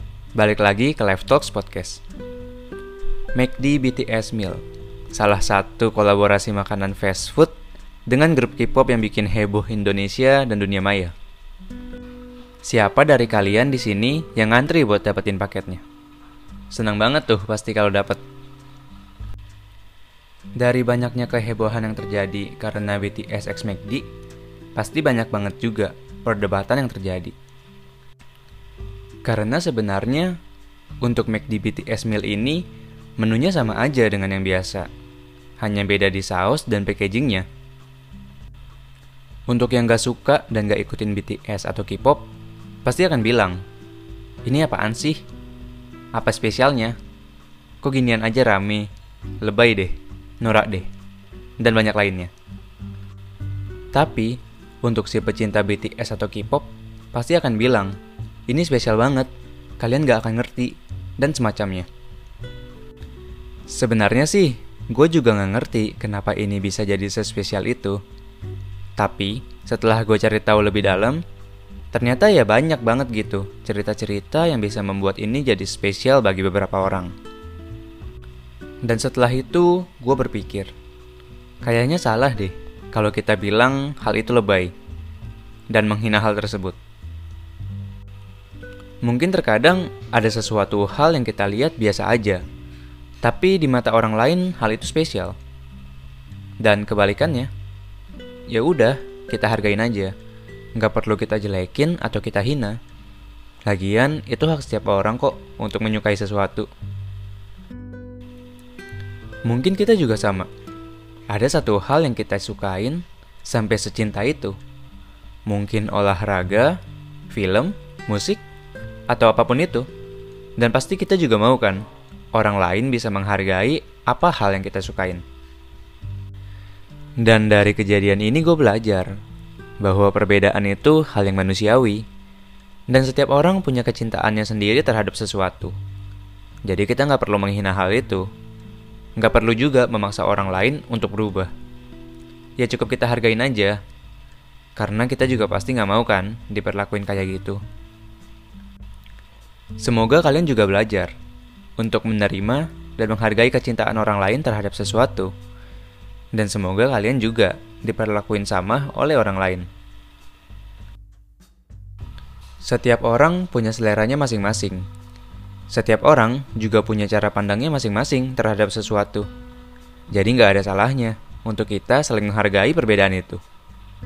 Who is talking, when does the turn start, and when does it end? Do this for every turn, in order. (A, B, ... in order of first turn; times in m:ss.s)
0:00.4-0:02.0 A
0:03.4-0:04.6 A
0:05.1-0:07.6 A
0:08.1-0:11.1 A
0:12.6-0:15.8 A
0:16.7-0:18.2 A
0:20.6-0:24.0 A
0:24.8-0:27.4 A
0:29.2-0:30.4 A
0:31.0-0:32.6 A
0:33.2-0:34.9 A
0:35.6-0:37.5 A
0:39.5-0:42.2 A
0:42.8-0:43.6 A
0:44.4-0:45.2 A
0:46.2-0:47.0 A
0:47.8-0:48.9 A
0:49.4-0:50.9 A
0:51.6-0:52.3 A
0:53.9-0:58.0 A
0:58.5-1:01.9 A
1:03.7-1:08.0 A
1:09.0-1:11.2 A
1:11.9-1:17.1 A
1:18.8-1:20.7 A
1:21.6-1:24.7 A
1:25.7-1:26.8 A
1:29.0-1:32.4 A
1:33.2-1:35.4 A
1:36.6-1:37.5 A
1:38.5-1:40.1 A
1:40.8-1:42.8 A
1:43.7-1:46.7 A
1:49.5-1:50.5 A
1:51.3-1:54.6 A
1:55.5-1:58.4 A
1:59.1-1:59.9 A
2:00.6-2:05.2 A
2:07.2-2:09.1 A
2:09.8-2:12.0 A
2:12.9-2:15.8 A
2:16.6-2:18.2 A
2:19.2-2:21.5 A
2:22.6-2:23.8 A
2:24.8-2:27.6 A
2:29.8-2:31.1 A
2:31.8-2:35.3 A
2:36.3-2:39.7 A
2:42.6-2:44.9 A
2:45.7-2:49.3 A
2:50.1-2:53.4 A